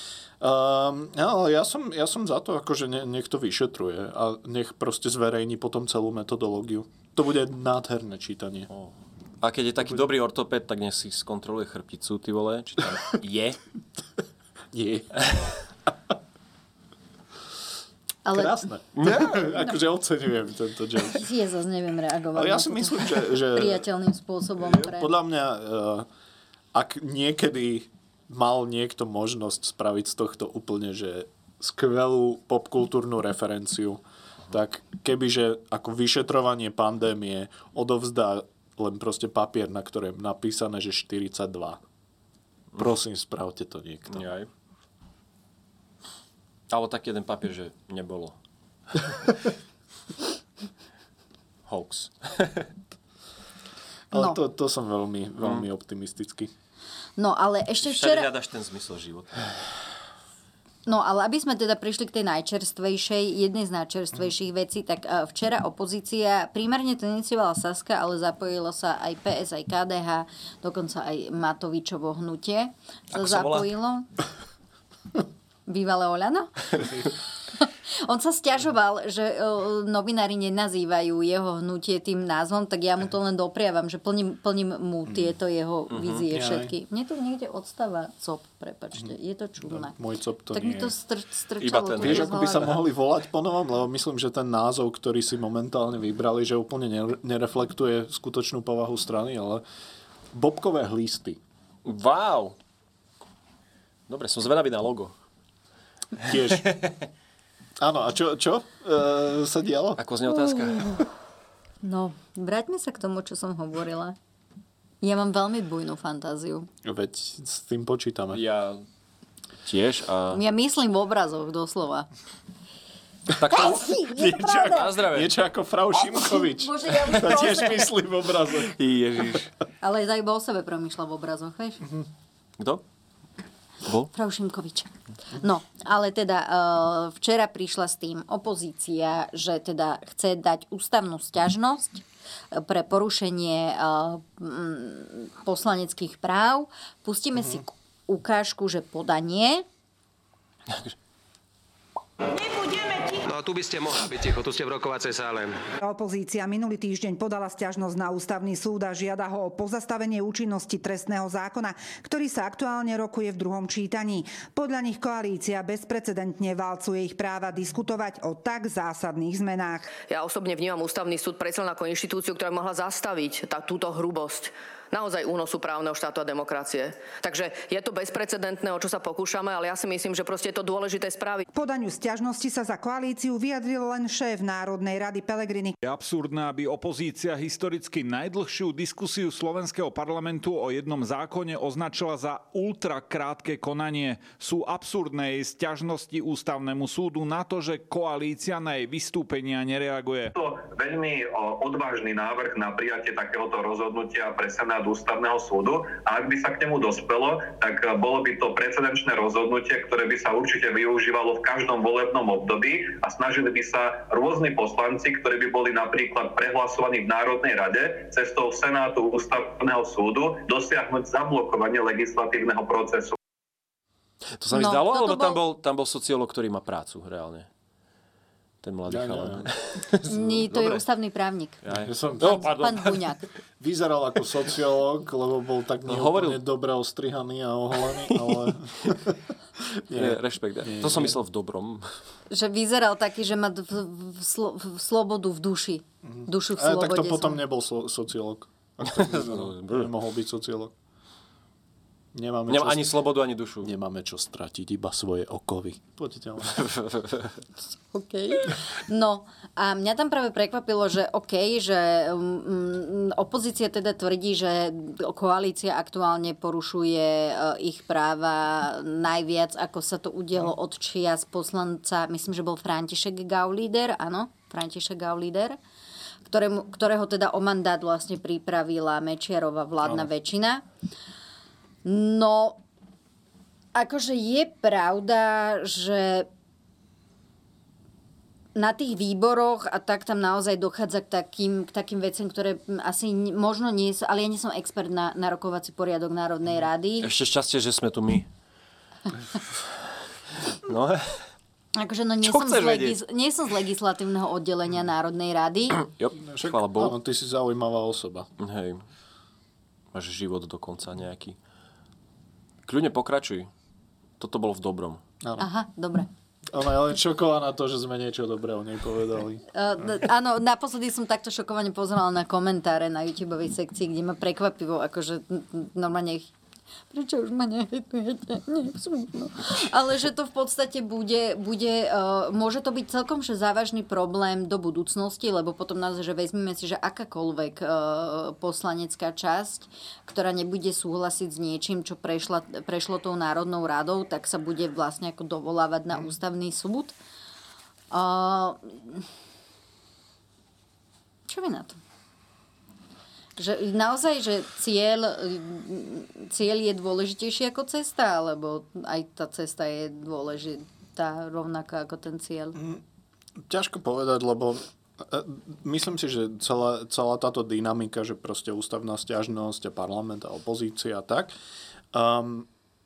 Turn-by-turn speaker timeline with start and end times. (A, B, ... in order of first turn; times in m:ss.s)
0:00.4-0:08.7 A
0:08.7-0:13.6 B
0:14.7-0:15.4 A
0:18.2-0:18.6 C
0:18.3-0:21.2 A
0:19.0-0:19.5 B
0:21.0-0:25.1 C
0:22.3-0:23.8 A
0:24.7-0:26.1 A
0:26.7-0:41.8 A
0:42.8-0:44.3 A
0:44.1-0:44.5 B
0:46.7-0:48.4 B
0:51.7-0:52.7 B
0:54.1-0:56.5 A
0:54.1-0:54.4 C
0:57.2-0:58.3 C
0:57.8-0:59.5 B
1:00.9-1:14.1 C
1:13.1-1:13.7 B
1:15.7-1:16.8 C
1:17.6-1:29.9 C
1:25.9-1:26.2 B
1:26.3-1:26.7 A
1:29.0-1:30.9 A
1:30.5-1:32.8 C
1:31.6-1:32.8 B
1:32.0-1:39.6 A
1:40.3-1:41.4 A
1:41.8-1:42.6 B
1:44.1-1:45.1 B
1:46.2-1:46.7 A
1:47.8-1:50.0 A
1:50.0-1:51.0 B
1:50.3-1:51.0 C
1:51.8-1:54.2 C
1:55.0-1:56.7 C
1:56.8-1:58.4 A
1:58.3-1:58.8 B
1:59.6-2:00.4 B
2:00.3-2:02.1 C
2:03.3-2:08.7 A
2:03.4-2:03.9 B
2:03.6-2:04.8 C
2:04.5-2:05.4 B
2:06.0-2:07.9 C
2:08.7-2:09.5 B
2:09.8-2:11.8 C
2:13.8-2:14.1 B
2:14.1-2:29.6 C
2:33.2-2:35.5 D
2:35.8-2:49.9 E
2:49.9-3:01.5 F
3:01.5-3:05.8 E
3:05.8-3:20.3 G
3:20.3-3:43.1 H
3:44.4-3:47.5 B
3:44.5-3:45.4 C
3:48.6-3:50.8 B
3:48.9-3:49.5 A
3:50.0-3:51.6 C
3:51.6-3:53.0 B
3:51.8-3:52.5 A
3:52.2-3:53.2 C
3:53.6-3:59.2 A
3:55.9-3:56.4 B
3:58.1-3:58.5 B
3:59.7-4:01.2 A
3:59.9-4:01.9 B
4:02.3-4:07.4 C
4:06.0-4:10.7 A
4:08.9-4:09.9 B
4:12.1-4:13.0 A
4:12.5-4:13.7 B
4:13.6-4:16.6 A
4:16.5-4:17.4 B
4:17.9-4:35.6 C
4:36.3-4:40.6 C
4:41.8-4:42.6 C
4:43.7-4:46.3 C
4:48.6-4:57.1 C
4:57.0-4:58.3 B
5:00.6-5:01.2 B
5:01.8-5:05.8 C
5:02.2-5:03.0 B
5:05.8-5:07.0 B
5:06.2-5:08.3 A
5:08.4-5:08.8 B
5:09.9-5:11.4 B
5:12.6-5:13.5 B
5:14.2-5:15.0 B
5:15.4-5:16.1 C
5:16.5-5:19.4 A
5:19.5-5:26.3 C
5:26.9-5:46.9 C
5:47.9-5:49.0 C
5:51.3-5:51.8 C
5:53.4-6:02.6 C
6:02.6-6:02.8 A
6:03.4-6:11.3 A
6:11.9-6:12.5 A